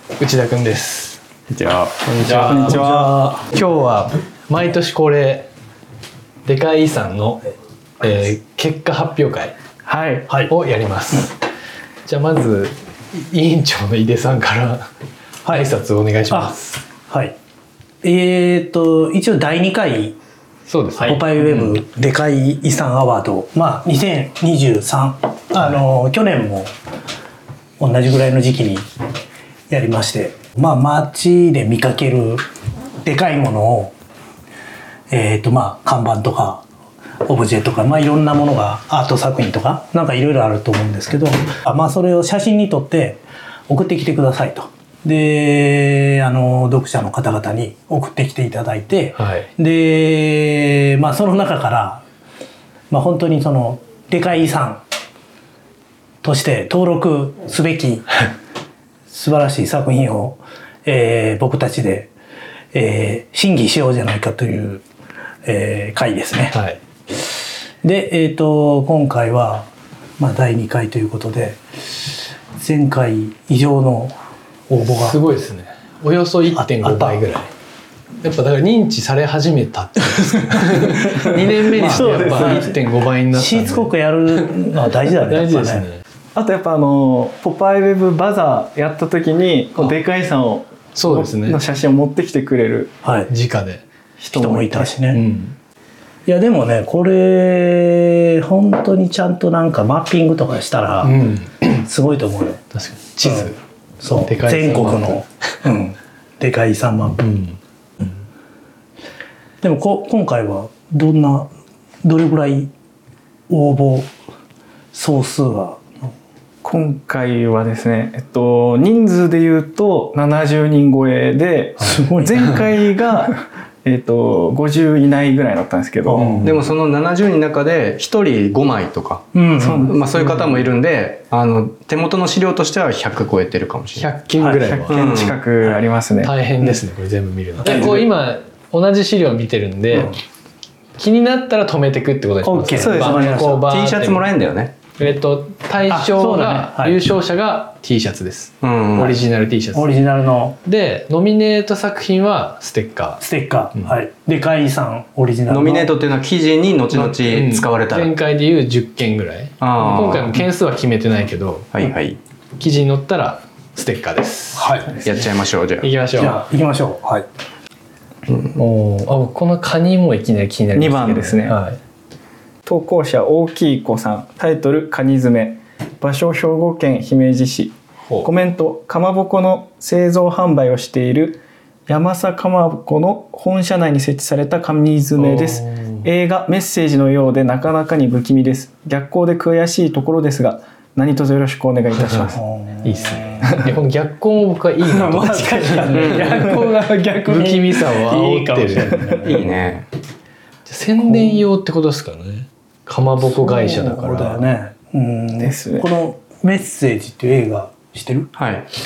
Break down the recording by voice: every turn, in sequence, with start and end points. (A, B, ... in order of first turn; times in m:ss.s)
0:00.2-0:01.2 A
0:01.5-0:02.4 B
0:02.2-0:02.8 A
0:02.2-0:03.3 C
0:02.4-0:03.4 D
0:03.5-0:05.5 A
0:06.4-0:07.4 A
0:08.0-0:09.5 A
0:09.8-0:10.3 C
0:10.5-0:11.4 A
0:12.0-0:14.9 A
0:15.4-0:15.7 D
0:15.5-0:16.6 A
0:16.3-0:17.4 D
0:18.0-0:20.2 D
0:20.7-0:21.8 A
0:21.0-0:26.7 D
0:27.8-0:28.9 D
0:29.7-0:32.4 D
0:33.0-0:33.9 D
0:35.1-0:36.6 D
0:37.2-0:52.0 D
0:49.2-0:49.5 A
0:52.9-0:54.8 D
0:56.2-0:58.3 D
0:59.1-1:02.1 D
1:02.7-1:04.8 D
1:05.4-1:06.6 D
1:06.5-1:06.8 A
1:07.8-1:12.0 D
1:12.6-1:14.2 D
1:14.7-1:15.2 D
1:14.8-1:17.5 A
1:16.5-1:17.2 D
1:18.2-1:26.0 A
1:20.9-1:22.8 D
1:21.7-1:22.8 C
1:23.3-1:25.8 D
1:26.3-1:33.0 C
1:30.9-1:31.6 A
1:33.0-1:33.3 D
1:33.3-1:33.8 A
1:34.2-1:34.9 C
1:34.3-1:35.2 D
1:35.1-1:35.6 A
1:36.2-1:41.2 D
1:41.0-1:41.8 A
1:41.8-1:42.6 D
1:42.7-1:43.6 A
1:43.2-1:47.2 D
1:44.2-1:45.2 A
1:47.2-1:47.6 A
1:49.6-1:51.5 D
1:52.0-1:52.7 D
1:53.5-1:54.1 D
1:54.9-1:56.1 D
1:56.6-2:06.4 C
2:01.8-2:02.6 D
2:06.0-2:06.6 D
2:06.1-2:06.6 A
2:06.4-2:14.1 B
2:09.3-2:09.9 D
2:09.6-2:10.4 C
2:14.0-2:15.0 A
2:14.4-2:14.8 D
2:14.7-2:16.3 C
2:14.9-2:15.4 B
2:16.2-2:20.2 A
2:21.0-2:24.2 A
2:22.4-2:23.6 D
2:22.8-2:24.7 B
2:25.0-2:30.0 A
2:25.8-2:27.0 D
2:28.6-2:29.2 B
2:29.7-2:30.6 D
2:30.6-2:33.2 A
2:33.2-2:35.9 D
2:35.5-2:38.1 B
2:36.9-2:41.7 A
2:39.6-2:40.4 B
2:41.7-2:42.2 B
2:42.6-2:44.8 A
2:44.5-2:45.0 D
2:45.0-2:45.9 B
2:45.8-2:46.4 A
2:46.2-2:47.3 D
2:48.5-2:51.8 A
2:50.7-2:51.6 C
2:52.6-3:12.4 C
3:05.2-3:06.0 A
3:12.0-3:12.3 A
3:12.3-3:13.5 D
3:12.8-3:19.1 A
3:14.9-3:19.6 D
3:15.9-3:16.4 B
3:19.2-3:19.8 B
3:20.7-3:24.4 A
3:21.0-3:21.4 D
3:23.3-3:28.3 D
3:25.4-3:25.9 C
3:28.3-3:28.6 B